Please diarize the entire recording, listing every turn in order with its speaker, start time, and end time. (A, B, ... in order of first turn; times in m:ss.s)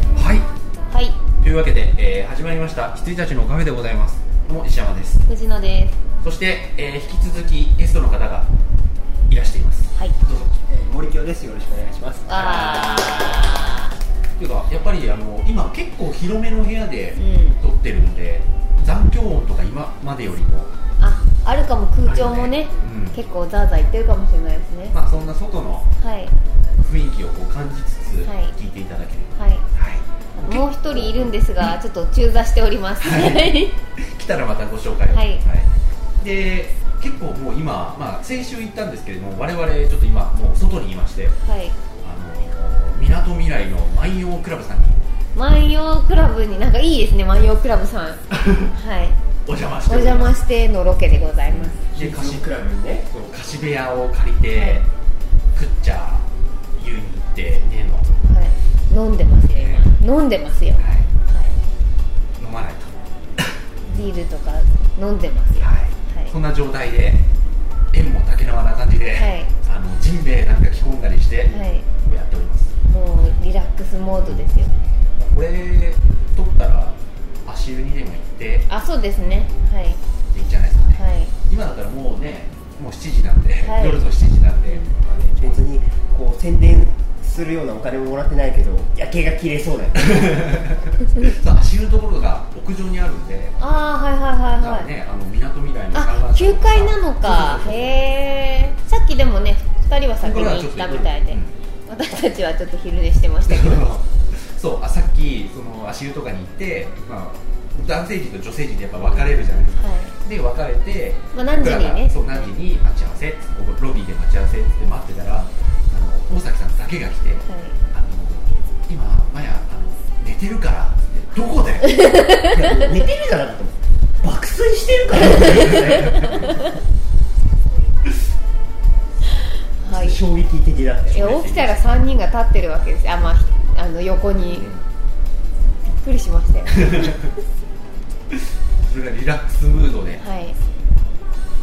0:00.1-0:00.5 A
0:00.9-0:01.2 B
0:01.4-0:05.2 A
0:05.3-0:06.0 B
0:06.2-0:08.5 A
0:09.3-0:10.5 A
0:10.6-0:12.3 C
0:12.3-0:13.9 B
0:12.3-0:13.7 A
0:14.4-0:20.8 A
0:17.1-0:17.6 B
0:21.0-0:24.9 B
0:22.1-0:23.2 A
0:24.9-0:25.9 A
0:26.0-0:26.4 B
0:26.8-0:31.2 A
0:28.2-0:28.5 B
0:29.4-0:29.6 B
0:30.4-0:33.8 B
0:33.0-0:35.7 A
0:35.1-0:35.4 B
0:36.2-0:41.4 A
0:41.4-0:41.8 B
0:42.0-0:45.0 A
0:45.3-0:48.2 B
0:48.3-0:48.7 A
0:48.8-0:49.2 B
0:49.4-0:50.4 A
0:49.8-0:51.8 B
0:51.4-0:52.5 A
0:51.9-0:53.1 C
0:53.1-0:54.9 A
0:54.5-0:54.8 B
0:55.5-0:56.2 A
0:56.8-0:58.1 A
0:58.2-1:01.6 B
0:59.5-0:59.9 A
1:00.8-1:01.1 A
1:02.4-1:04.1 A
1:03.8-1:06.3 B
1:05.6-1:07.2 A
1:07.9-1:12.7 A
1:09.1-1:09.5 B
1:11.4-1:11.9 B
1:12.9-1:14.7 B
1:14.2-1:14.5 A
1:15.2-1:18.7 A
1:18.7-1:20.0 B
1:20.3-1:25.6 A
1:20.9-1:21.3 B
1:23.6-1:24.0 B
1:24.6-1:24.9 B
1:25.4-1:30.6 C
1:30.0-1:33.6 A
1:33.6-1:34.9 B
1:34.6-1:38.2 A
1:35.9-1:43.9 B
1:40.2-1:41.5 A
1:43.4-2:02.0 A
1:49.1-1:50.1 B
1:51.3-1:52.5 B
1:57.5-1:57.8 B
2:01.8-2:02.8 B
2:02.4-2:06.4 C
2:05.3-2:06.5 B
2:05.5-2:06.3 A
2:09.8-2:10.2 B
2:09.9-2:11.3 C
2:11.1-2:11.9 A
2:11.1-2:14.7 B
2:15.8-2:17.2 B
2:16.8-2:17.3 A
2:18.3-2:20.2 A
2:20.2-2:20.6 B